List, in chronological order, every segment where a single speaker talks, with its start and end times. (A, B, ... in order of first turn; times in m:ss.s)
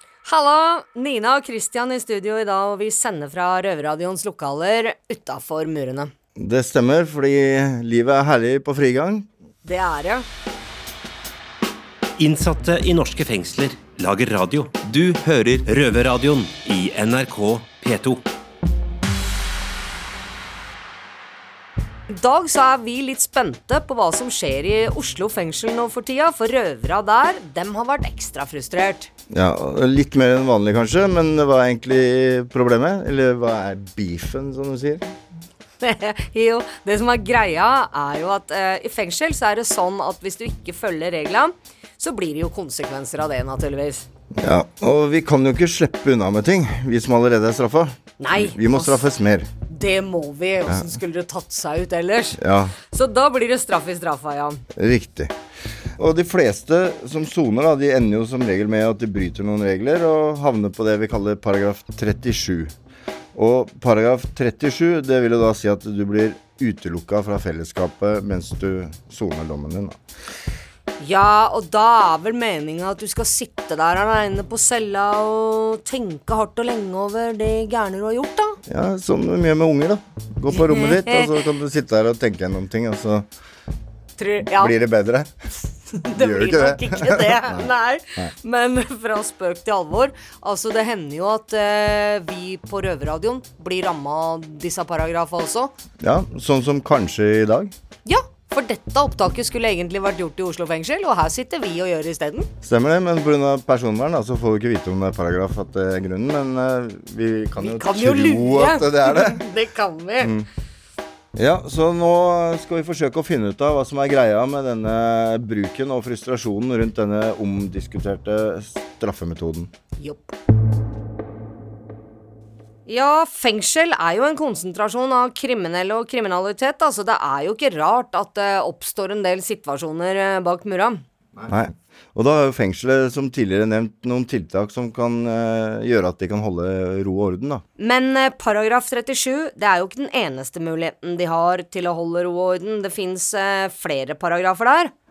0:00.2-0:06.1 A
0:06.4-0:09.3 B
0:09.6-0:10.2 A
0:12.2-0:18.2 C
0:22.1-0:29.1 A
0:29.3-0:35.0 B
0:35.8-0:44.0 A
0:44.3-0:49.5 B
0:48.2-0:49.1 A
0:49.6-0:52.4 A
0:52.4-0:52.8 B
0:52.9-0:54.6 A
0:54.8-0:55.3 B
0:56.0-1:02.7 B
1:03.3-1:10.0 B
1:11.0-1:18.6 A
1:18.7-1:23.2 B
1:20.5-1:21.3 A
1:24.2-1:24.7 A
1:24.5-1:25.3 B
1:25.9-1:35.7 A
1:26.1-1:28.3 B
1:36.0-1:37.7 B
1:38.0-1:42.5 A
1:42.6-1:49.4 B
1:47.6-1:50.3 A
1:50.2-1:50.5 B
1:51.3-1:59.7 B
2:00.0-2:00.3 A
2:02.8-2:11.0 A
2:11.4-2:17.6 B
2:17.8-2:24.9 A